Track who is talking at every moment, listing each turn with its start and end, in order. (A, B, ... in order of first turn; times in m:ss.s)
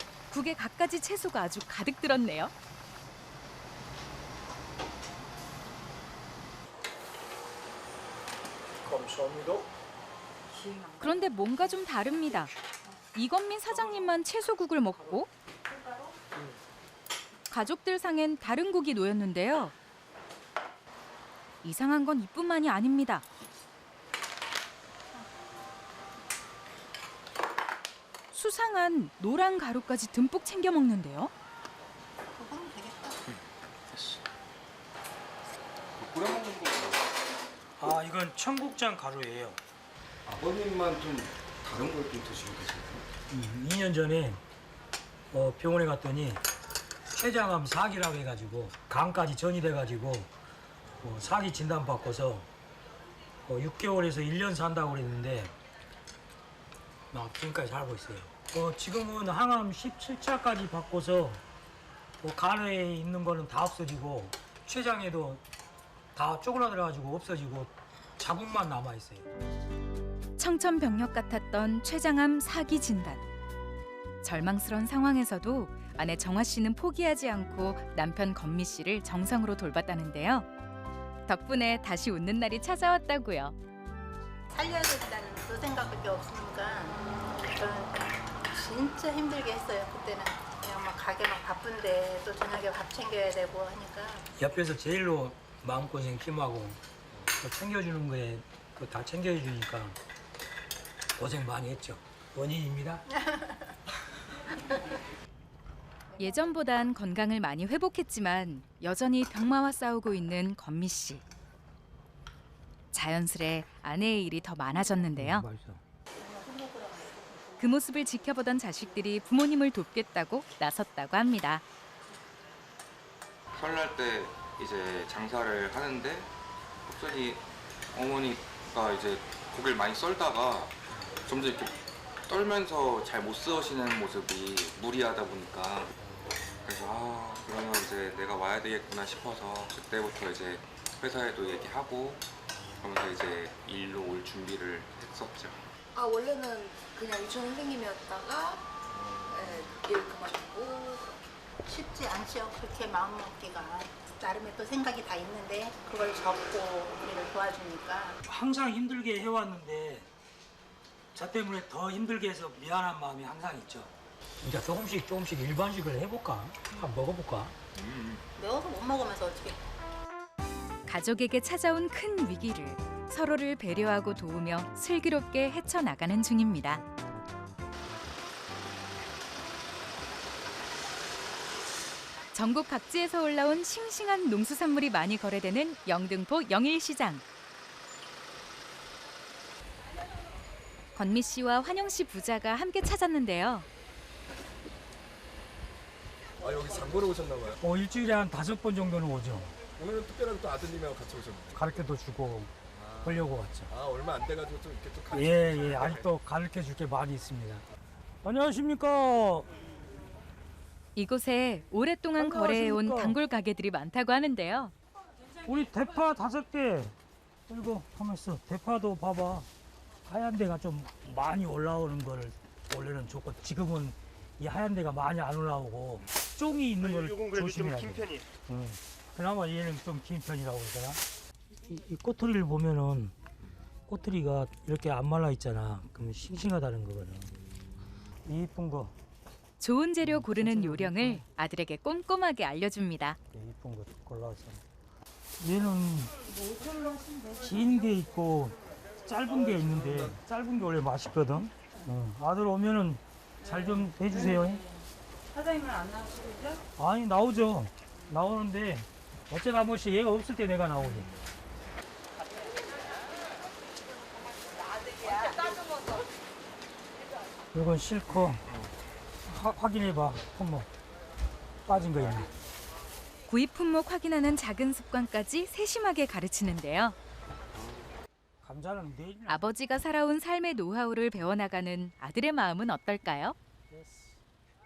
0:00.3-0:02.5 A
0:08.8-0:09.7 B
0:10.7-0:11.2 C
0:11.0-0:12.5 A
0:13.1-0:15.3 A
0:15.7-0:16.1 D
0:17.5-0:19.7 A
0:21.6-0:23.2 A
0:28.3-0:31.3 A
0:32.3-0:33.2 D
0:36.0-0:36.7 E
0:36.0-0:36.9 F
0:37.8-0:39.6 B
0:40.2-0:43.0 E
0:43.3-0:44.4 B
0:45.3-0:46.4 B
0:47.1-0:50.3 B
0:51.0-0:52.5 B
0:53.5-0:55.5 B
0:57.1-1:01.4 B
1:02.2-1:05.4 B
1:06.1-1:09.3 B
1:10.4-1:13.2 A
1:14.2-1:20.4 A
1:21.3-1:23.5 A
1:24.5-1:34.3 D
1:34.4-1:36.8 B
1:37.4-1:40.0 B
1:41.2-1:43.0 B
1:43.1-1:43.8 D
1:46.1-1:46.6 D
1:46.2-1:51.2 A
1:52.9-1:55.4 A
1:55.1-1:55.8 B
1:56.1-1:58.0 D
1:57.6-2:01.6 A
2:03.5-2:06.3 F
2:06.8-2:07.4 F
2:07.9-2:15.9 F
2:16.6-2:22.2 F
2:22.8-2:25.7 F
2:25.9-2:28.7 C
2:29.2-2:31.2 C
2:31.6-2:38.2 D
2:38.2-2:40.1 B
2:41.1-2:47.6 B
2:47.8-2:48.2 F
2:48.4-2:49.6 D
2:50.9-2:56.8 A
3:02.3-3:07.2 A
3:11.0-3:13.7 A
3:16.4-3:17.6 E
3:17.6-3:19.6 B
3:19.8-3:21.6 E
3:21.5-3:22.5 B
3:22.7-3:26.0 E
3:23.0-3:23.7 B
3:25.1-3:27.6 B
3:28.2-3:29.5 B
3:31.0-3:34.7 A
3:32.2-3:33.2 B
3:35.4-3:36.9 B
3:37.5-3:39.5 B
3:40.0-3:51.0 B
3:51.6-3:53.1 B
3:53.9-3:57.3 B
3:58.2-3:58.9 B
3:59.6-4:03.2 A
4:00.0-4:01.2 B
4:03.3-4:04.6 B
4:05.4-4:06.2 B
4:07.4-4:14.6 B
4:09.4-4:10.2 E
4:16.8-4:21.1 B
4:27.5-4:28.4 B
4:28.4-4:28.7 F
4:29.2-4:30.7 B
4:31.6-4:32.3 B
4:33.3-4:37.0 A
4:37.5-4:37.9 F
4:38.4-4:39.5 B
4:39.3-4:43.3 A
4:43.7-4:44.2 B